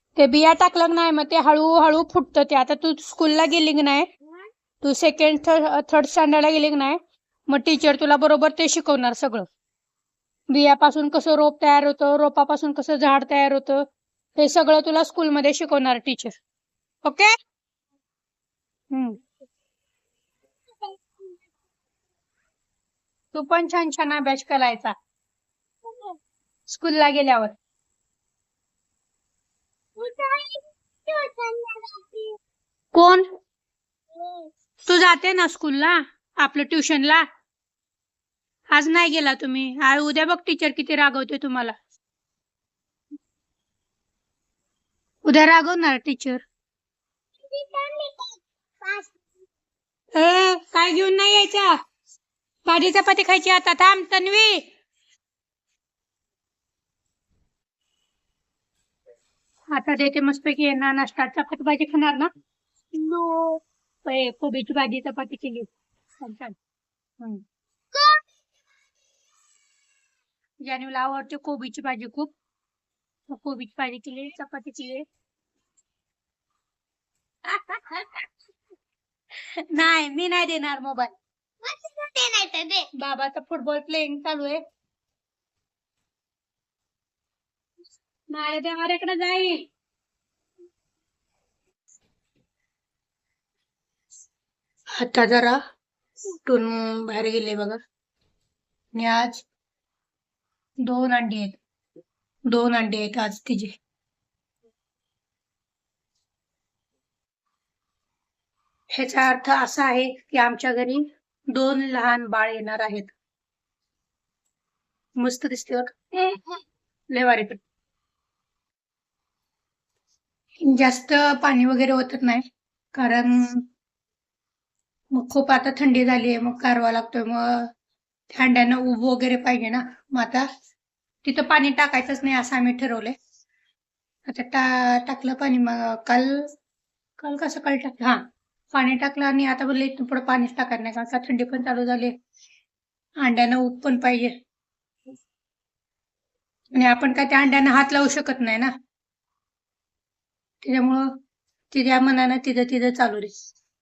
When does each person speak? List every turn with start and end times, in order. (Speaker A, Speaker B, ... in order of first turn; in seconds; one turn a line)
Speaker A: 0.2-4.1
Speaker A: 4.8-9.4
Speaker A: 10.5-13.8
Speaker A: 14.4-16.3
Speaker A: 17.0-17.3
Speaker A: 18.9-19.2
Speaker B: 20.8-21.4
Speaker A: 23.3-24.9
Speaker B: 25.9-26.2
Speaker A: 26.7-27.5
Speaker B: 30.0-32.4
Speaker A: 32.9-33.2
Speaker B: 34.1-34.5
Speaker A: 34.9-37.2
Speaker A: 38.7-41.7
Speaker A: 45.2-46.4
Speaker B: 47.5-49.1
Speaker A: 50.1-51.7
Speaker A: 52.7-54.6
Speaker A: 59.7-62.3
Speaker A: 62.9-65.7
Speaker A: 66.2-66.6
Speaker B: 67.9-68.2
Speaker A: 70.7-72.3
Speaker A: 73.3-75.0
Speaker A: 77.5-78.2
Speaker A: 79.7-81.1
Speaker B: 81.6-82.9
Speaker A: 83.0-84.6
Speaker A: 88.3-89.7
Speaker A: 95.0-95.6
Speaker A: 96.4-97.8
Speaker A: 98.9-99.4
Speaker A: 100.8-101.6
Speaker A: 102.5-103.8
Speaker A: 109.0-113.1
Speaker A: 115.2-116.4
Speaker A: 117.1-117.6
Speaker A: 120.6-122.4
Speaker A: 122.9-123.6
Speaker A: 125.1-127.7
Speaker A: 128.3-130.5
Speaker A: 131.2-133.2
Speaker A: 134.3-136.4
Speaker A: 137.2-142.1
Speaker A: 143.2-144.3
Speaker A: 146.7-148.7
Speaker A: 150.6-151.1
Speaker A: 151.7-153.3